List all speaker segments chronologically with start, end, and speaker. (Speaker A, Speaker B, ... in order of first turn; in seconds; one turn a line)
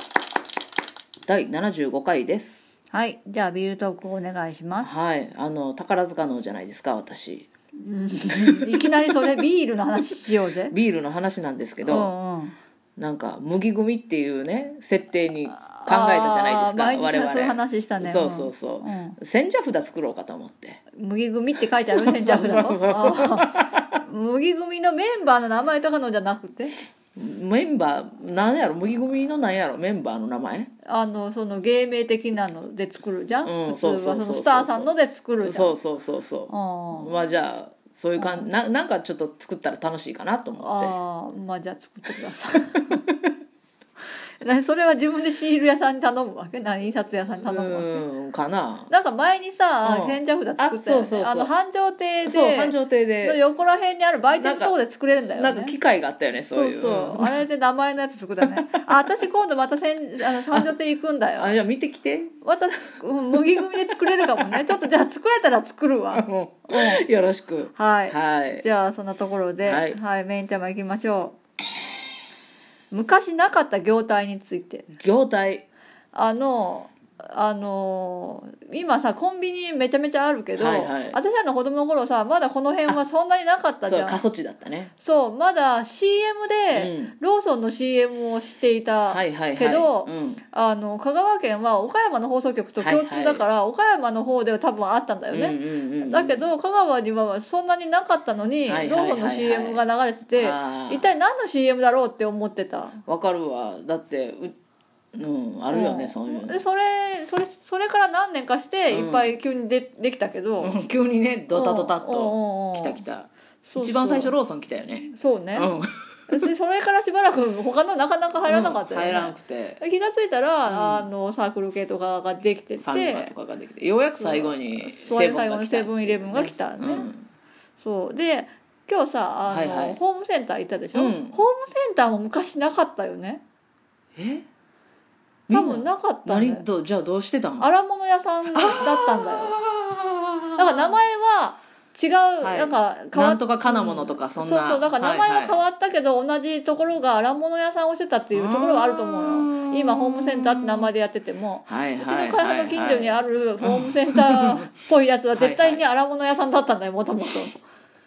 Speaker A: 1.3-2.6
Speaker B: 2.9-4.9
Speaker A: 4.8-7.5
Speaker B: 7.8-10.7
Speaker A: 8.4-9.4
Speaker A: 10.7-12.1
Speaker B: 11.8-12.5
Speaker A: 13.0-20.8
Speaker B: 15.5-19.2
Speaker B: 20.9-26.8
Speaker A: 21.9-23.9
Speaker A: 27.1-30.7
Speaker B: 30.8-35.8
Speaker A: 33.4-40.9
Speaker B: 36.5-37.1
Speaker B: 38.2-38.5
Speaker B: 40.6-43.0
Speaker B: 44.4-48.0
Speaker A: 47.5-48.9
Speaker B: 48.9-55.8
Speaker A: 49.8-51.5
Speaker A: 52.2-53.4
Speaker A: 54.3-54.7
Speaker A: 55.3-57.4
Speaker B: 56.5-61.5
Speaker A: 58.4-58.9
Speaker A: 60.3-60.8
Speaker A: 61.4-62.3
Speaker B: 62.4-67.0
Speaker A: 63.3-64.8
Speaker A: 66.1-68.6
Speaker B: 67.7-71.3
Speaker A: 69.6-70.0
Speaker B: 72.9-74.9
Speaker A: 75.0-75.6
Speaker B: 76.1-84.2
Speaker A: 80.5-81.2
Speaker A: 83.8-84.9
Speaker B: 85.0-103.0
Speaker A: 86.7-87.1
Speaker A: 89.1-90.4
Speaker A: 92.8-93.4
Speaker A: 95.3-96.5
Speaker A: 98.7-99.8
Speaker A: 100.3-101.1
Speaker A: 103.0-104.5
Speaker A: 105.1-106.6
Speaker B: 105.7-110.8
Speaker A: 108.9-109.3
Speaker A: 110.6-116.3
Speaker B: 111.5-113.0
Speaker B: 113.6-114.3
Speaker B: 115.0-115.7
Speaker B: 116.3-123.3
Speaker A: 118.4-119.8
Speaker A: 120.7-121.1
Speaker A: 122.8-127.2
Speaker B: 124.1-127.1
Speaker B: 127.8-133.4
Speaker A: 129.5-130.0
Speaker A: 130.9-131.4
Speaker A: 134.2-134.4
Speaker A: 135.5-137.7
Speaker B: 135.5-136.7
Speaker B: 137.6-139.6
Speaker A: 138.5-141.0
Speaker B: 140.6-157.6
Speaker A: 142.4-145.6
Speaker A: 148.3-150.9
Speaker A: 151.7-154.7
Speaker A: 155.3-155.8